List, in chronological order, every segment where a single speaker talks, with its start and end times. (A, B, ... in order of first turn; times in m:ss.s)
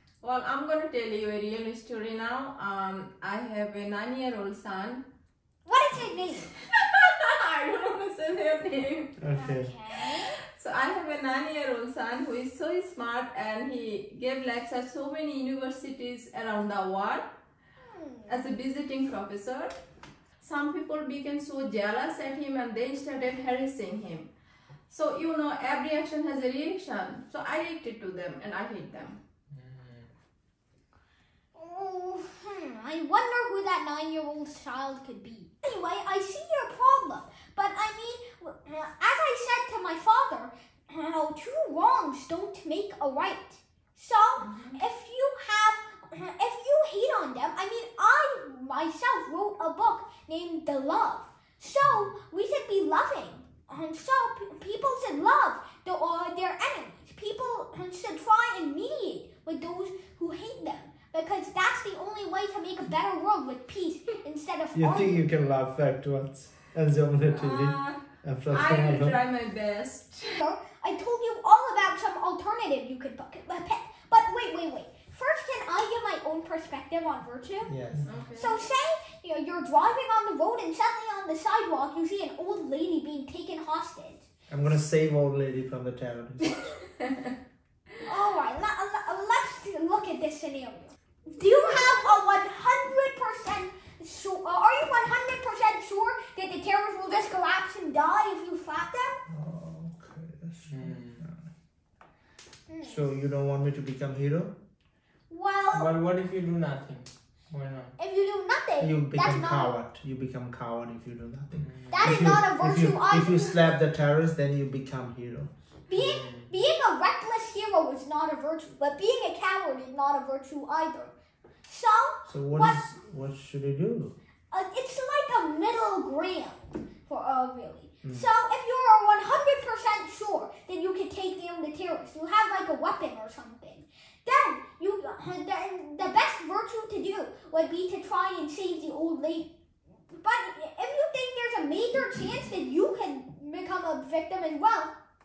0:00.2-0:05.1 A
0:05.6-0:06.5 B
0:06.6-0:09.1 A
0:09.2-0:09.7 C
0:09.3-0:10.4 B
0:10.0-0:17.3 A
0:17.8-0:18.5 B
0:18.3-0:19.8 A
0:20.4-0:24.3 A
0:24.9-0:29.2 A
0:29.5-0:30.1 D
0:31.6-1:05.2 B
0:44.4-0:44.8 A
0:51.8-0:52.1 D
1:04.8-1:09.2 C
1:07.3-1:10.4 A
1:10.4-1:17.7 B
1:17.7-1:18.1 C
1:18.1-1:18.6 A
1:18.3-1:24.2 B
1:24.5-1:26.7 C
1:28.0-1:39.2 B
1:39.3-1:41.4 C
1:40.7-1:41.2 D
1:42.7-1:43.0 B
1:42.8-1:44.6 C
1:45.3-1:45.9 B
1:45.7-1:47.9 D
1:48.0-1:49.8 B
1:48.8-1:55.5 C
1:51.6-1:52.1 D
1:51.9-1:53.6 B
1:55.9-2:01.1 B
1:55.9-1:56.5 D
2:01.7-2:02.9 B
2:02.2-2:04.1 C
2:04.5-2:19.5 B
2:20.1-2:24.9 B